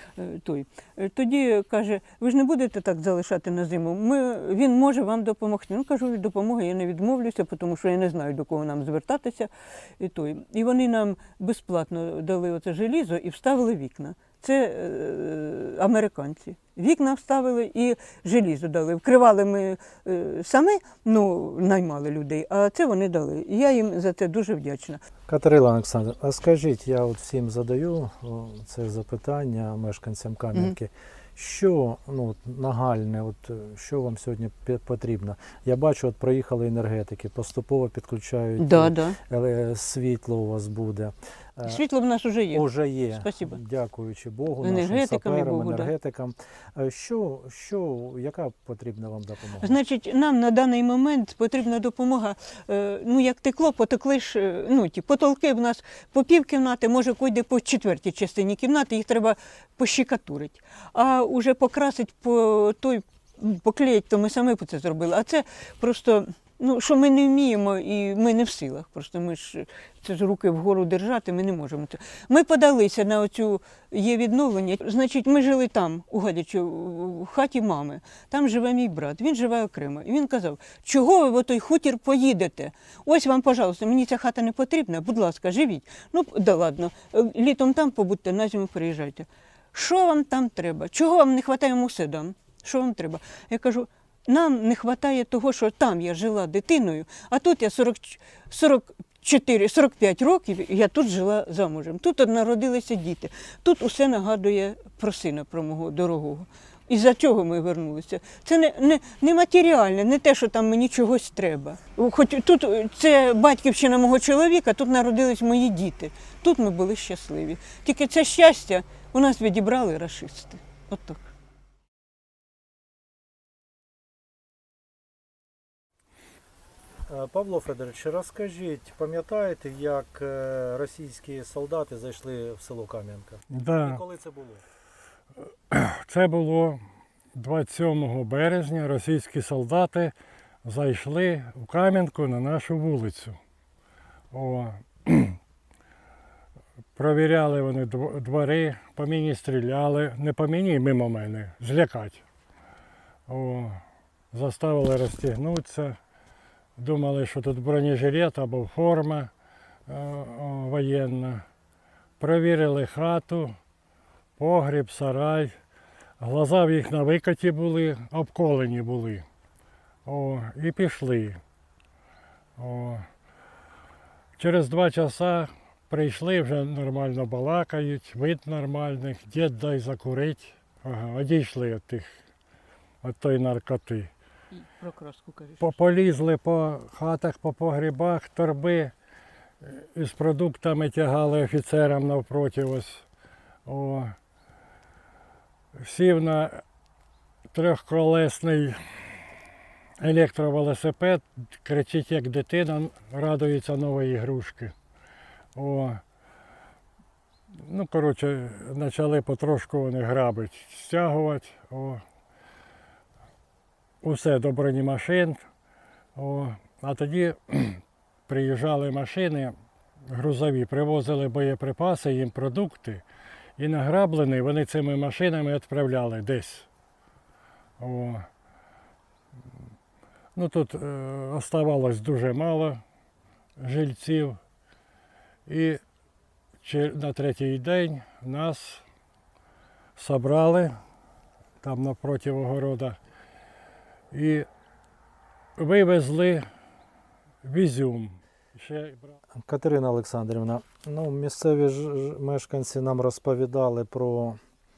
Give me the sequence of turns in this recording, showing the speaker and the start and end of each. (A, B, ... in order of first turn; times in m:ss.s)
0:00.2-0:25.0 A
0:25.3-0:41.8 B
0:38.6-0:39.2 A
0:41.6-0:43.6 A
0:42.5-0:49.8 B
0:44.6-0:45.9 A
0:49.6-2:01.2 A
2:07.1-2:14.6 B
2:13.5-2:14.0 C
2:15.7-2:16.8 C
2:17.3-2:20.1 C
2:20.6-2:23.4 C
2:24.3-2:25.4 C
2:27.0-2:32.2 C
2:33.3-2:36.0 C
2:36.8-2:39.3 C
2:39.9-2:41.4 C
2:42.2-2:43.6 C
2:44.4-2:45.5 C
2:46.2-2:49.2 C
2:50.0-2:51.4 C
2:52.6-2:53.1 C
2:54.4-3:02.1 C
3:03.0-3:04.1 C
3:04.5-3:05.7 A
3:05.6-3:08.9 C
3:09.6-3:13.0 C
3:13.6-3:14.2 C
3:15.7-3:16.6 C
3:17.5-3:19.2 C
3:20.0-3:24.7 C
3:25.5-3:26.0 C
3:27.6-3:32.0 C
3:34.0-3:35.4 C
3:36.2-3:39.5 C
3:40.1-3:43.0 C
3:43.6-3:46.6 C
3:47.8-3:48.3 C
3:50.3-3:52.8 C
3:53.6-3:54.4 C
3:55.5-3:55.8 C
3:56.6-3:58.8 C
4:00.0-4:00.7 C
4:01.6-4:03.0 C
4:04.1-4:04.5 C
4:05.6-4:06.4 C
4:07.4-4:09.1 C
4:09.4-4:14.4 B